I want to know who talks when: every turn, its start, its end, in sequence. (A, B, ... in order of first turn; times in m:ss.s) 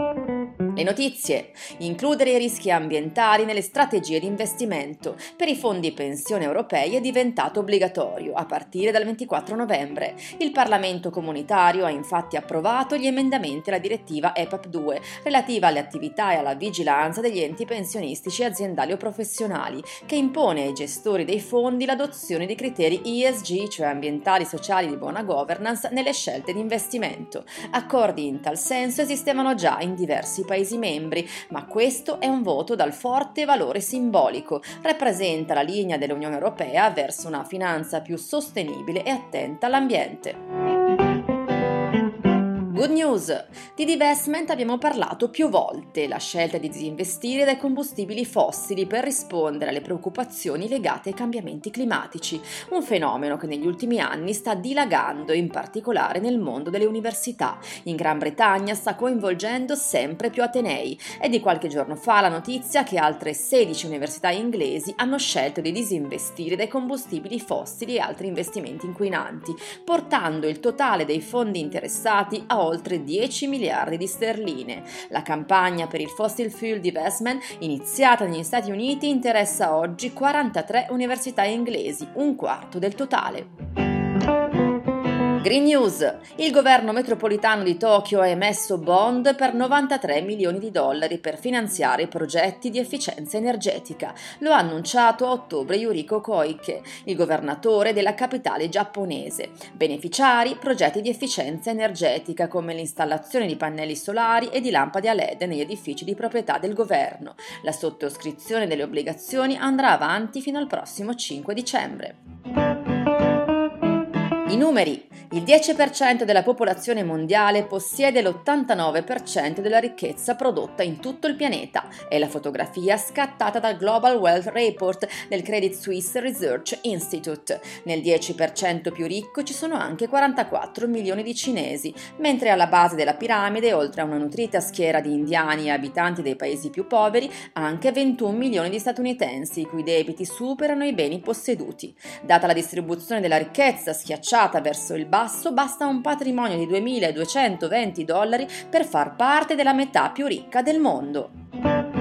0:00.7-0:40.4 A
0:42.7-1:23.5 A
1:25.4-1:52.2 A
1:54.5-2:31.3 A